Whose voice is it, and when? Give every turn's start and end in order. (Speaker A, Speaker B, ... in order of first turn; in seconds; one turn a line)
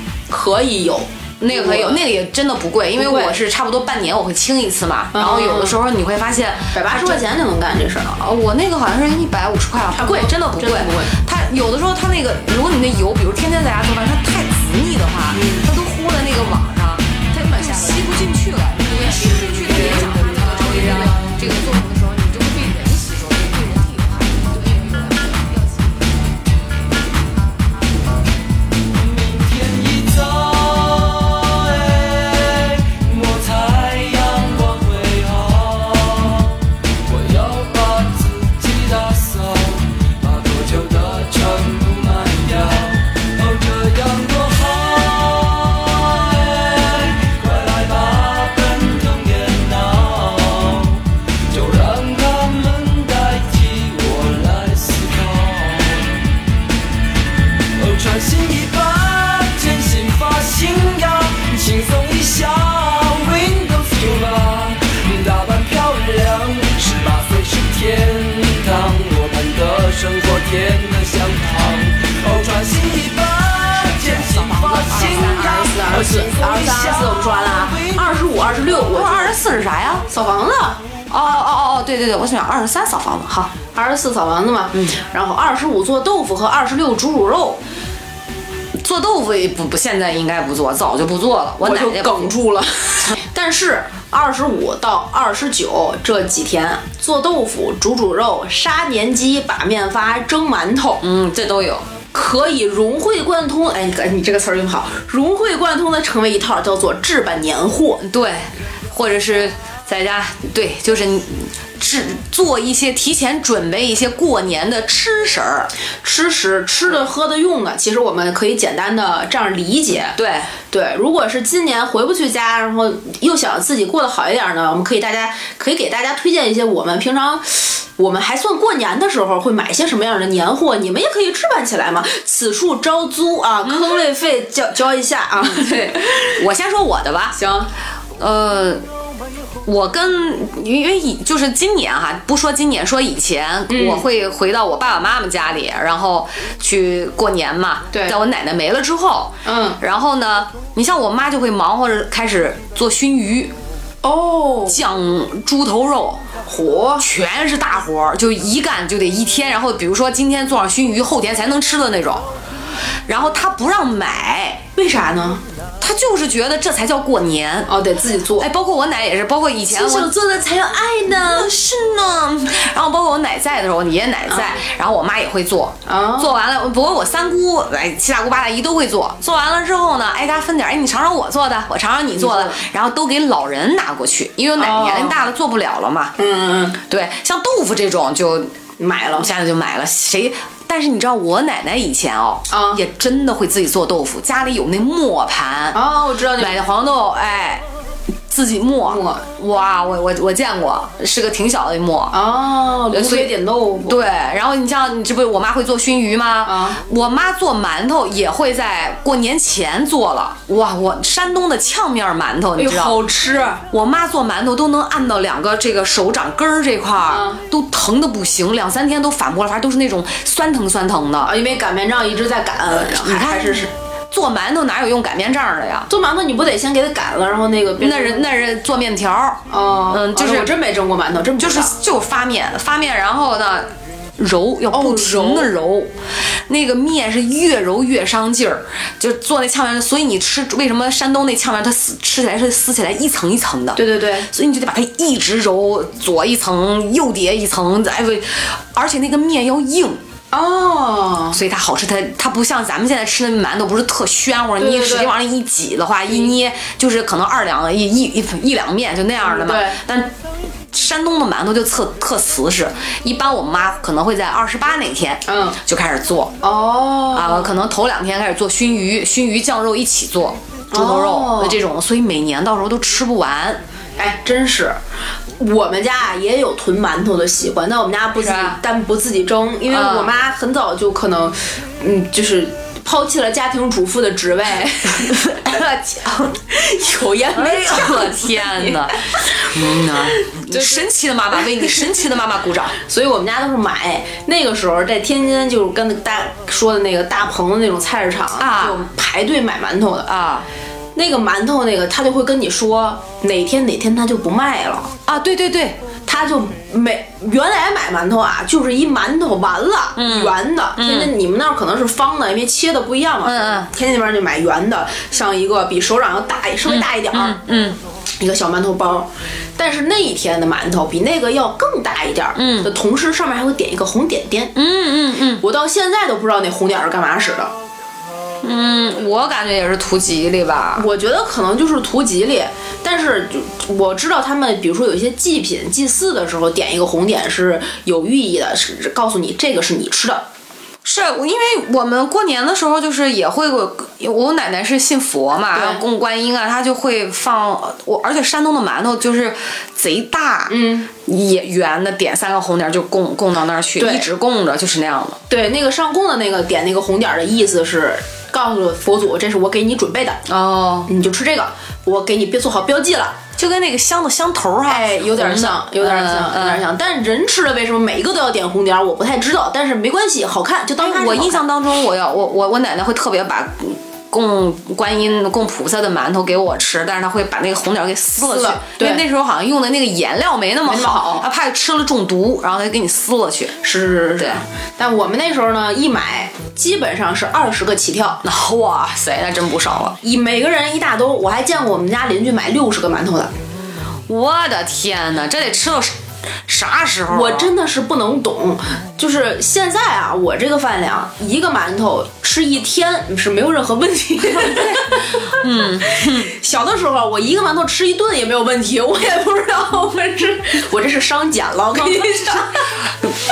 Speaker A: 0.3-2.0
Speaker B: 1.4-7.3
Speaker A: 3.0-3.4
Speaker A: 5.1-5.8
Speaker A: 6.7-8.2
Speaker B: 8.2-26.1
Speaker A: 9.9-11.1
Speaker A: 15.3-15.7
Speaker A: 17.3-18.2
Speaker A: 18.9-21.3
Speaker C: 28.9-56.2
Speaker C: 57.8-78.8
Speaker B: 74.0-75.8
Speaker A: 75.2-79.3
Speaker B: 78.9-80.1
Speaker A: 80.1-80.8
Speaker B: 81.1-83.5
Speaker A: 83.7-87.6
Speaker B: 88.8-92.3
Speaker A: 91.6-101.0
Speaker B: 101.0-101.8
Speaker A: 102.1-108.0
Speaker B: 108.0-115.7
Speaker A: 116.0-120.2
Speaker B: 120.2-120.5
Speaker A: 120.7-136.4
Speaker B: 133.6-134.1
Speaker B: 136.4-137.4
Speaker A: 137.3-137.7
Speaker B: 138.2-138.8
Speaker B: 139.7-153.5
Speaker A: 143.7-144.1
Speaker A: 147.9-148.2
Speaker A: 149.4-149.8
Speaker A: 154.0-154.8
Speaker B: 154.7-156.2
Speaker A: 156.5-157.1
Speaker B: 157.0-162.2
Speaker B: 163.1-164.6
Speaker A: 164.8-165.4
Speaker B: 165.8-167.7
Speaker A: 167.7-168.5
Speaker B: 168.4-170.1
Speaker A: 169.7-171.5
Speaker B: 171.1-186.2
Speaker A: 175.9-176.3
Speaker A: 182.2-182.6
Speaker A: 184.6-185.2
Speaker A: 186.2-186.8
Speaker B: 186.9-188.5
Speaker A: 188.8-189.3
Speaker B: 189.2-195.8
Speaker A: 192.5-192.8
Speaker A: 195.7-196.6
Speaker B: 196.4-197.6
Speaker B: 198.3-202.2
Speaker A: 198.9-199.2
Speaker A: 202.1-204.0
Speaker B: 202.9-203.3
Speaker B: 203.8-213.0
Speaker A: 206.4-206.8
Speaker A: 212.6-213.6
Speaker B: 213.7-221.3
Speaker A: 217.1-217.4
Speaker A: 221.2-223.7
Speaker B: 222.7-225.9
Speaker A: 225.9-228.3
Speaker B: 227.8-230.5
Speaker A: 229.5-231.8
Speaker B: 231.4-235.9
Speaker A: 234.7-235.5
Speaker B: 236.5-250.0
Speaker A: 243.8-244.3
Speaker A: 250.3-251.4
Speaker B: 251.3-260.1
Speaker A: 254.6-255.2
Speaker A: 259.2-259.8
Speaker B: 260.7-266.3
Speaker A: 265.3-265.6
Speaker A: 266.4-267.5
Speaker B: 267.1-273.6
Speaker A: 270.7-271.6
Speaker A: 274.0-274.8
Speaker A: 275.4-285.3
Speaker B: 278.2-278.6
Speaker B: 279.7-280.1
Speaker B: 285.0-286.4
Speaker A: 286.5-289.5
Speaker B: 287.3-292.8
Speaker A: 290.0-290.9
Speaker A: 292.8-300.1
Speaker B: 298.4-298.8
Speaker B: 300.1-300.5
Speaker A: 300.9-304.9
Speaker B: 305.1-305.8
Speaker A: 306.1-317.4
Speaker B: 310.0-311.1
Speaker B: 313.2-313.7
Speaker B: 316.6-317.8
Speaker A: 318.2-324.5
Speaker B: 322.4-322.7
Speaker B: 324.6-325.4
Speaker A: 325.4-327.5
Speaker B: 328.4-330.9
Speaker A: 330.8-340.2
Speaker B: 340.9-355.2
Speaker A: 345.5-345.8
Speaker A: 350.5-350.9
Speaker A: 353.8-354.1
Speaker A: 355.3-360.2
Speaker B: 360.3-360.9
Speaker A: 360.9-363.2
Speaker B: 363.4-366.6
Speaker A: 364.7-371.4
Speaker B: 370.8-383.6
Speaker A: 378.2-379.0
Speaker A: 380.7-381.3
Speaker A: 383.6-388.2
Speaker B: 388.2-390.0
Speaker A: 390.0-393.3
Speaker B: 394.1-396.0
Speaker B: 396.5-397.5
Speaker A: 397.1-412.8
Speaker B: 404.3-406.3
Speaker B: 411.8-412.4